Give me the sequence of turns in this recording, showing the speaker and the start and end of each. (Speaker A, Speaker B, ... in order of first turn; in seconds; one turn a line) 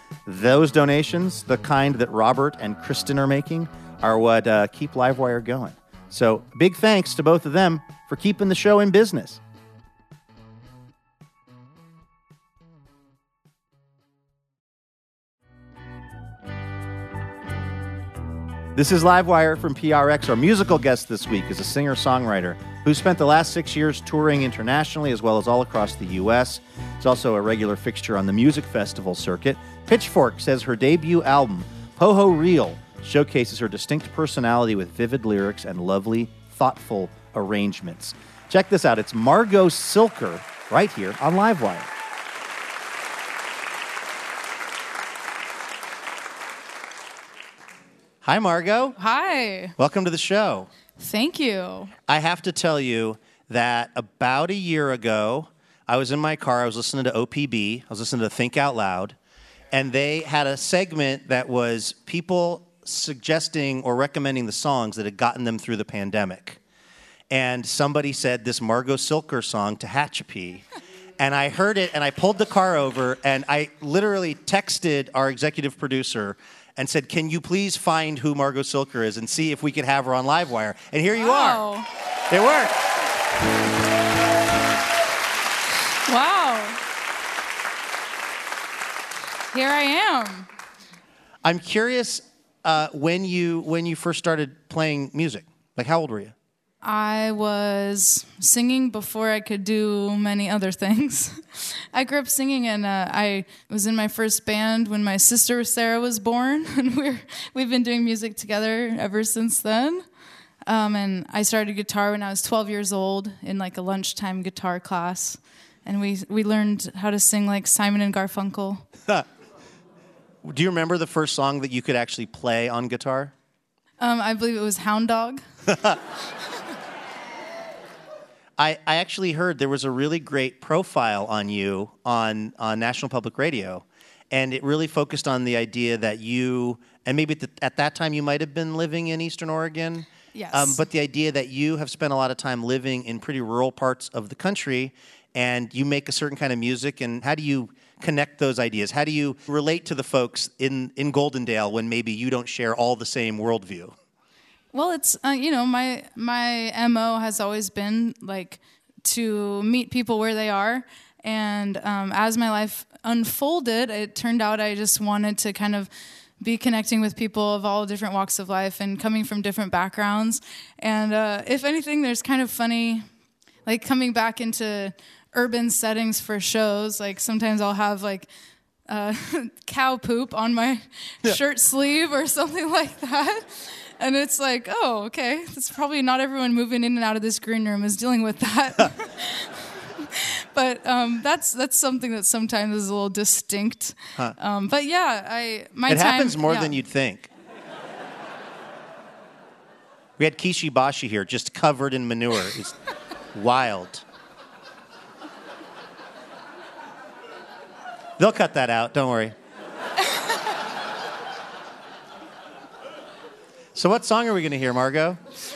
Speaker A: 0.3-9.4
Speaker A: 18.8-41.9
Speaker A: 48.2-49.0
Speaker B: 49.0-49.7
Speaker A: 49.8-50.7
Speaker B: 51.0-51.9
Speaker A: 52.1-59.2
Speaker A: 59.7-66.6
Speaker A: 67.3-70.6
Speaker A: 71.2-81.6
Speaker B: 81.2-81.9
Speaker A: 82.3-82.8
Speaker B: 86.1-86.8
Speaker B: 89.5-90.5
Speaker A: 91.4-96.3
Speaker B: 96.8-110.0
Speaker B: 110.7-118.9
Speaker A: 120.5-123.3
Speaker B: 124.0-125.4
Speaker A: 128.6-153.9
Speaker B: 140.3-140.8
Speaker B: 154.7-165.9
Speaker B: 166.4-173.1
Speaker B: 173.7-178.3
Speaker B: 178.9-183.4
Speaker B: 184.0-196.8
Speaker A: 195.9-197.3
Speaker A: 200.2-202.8
Speaker A: 203.3-204.1
Speaker A: 208.2-209.3
Speaker A: 213.8-215.2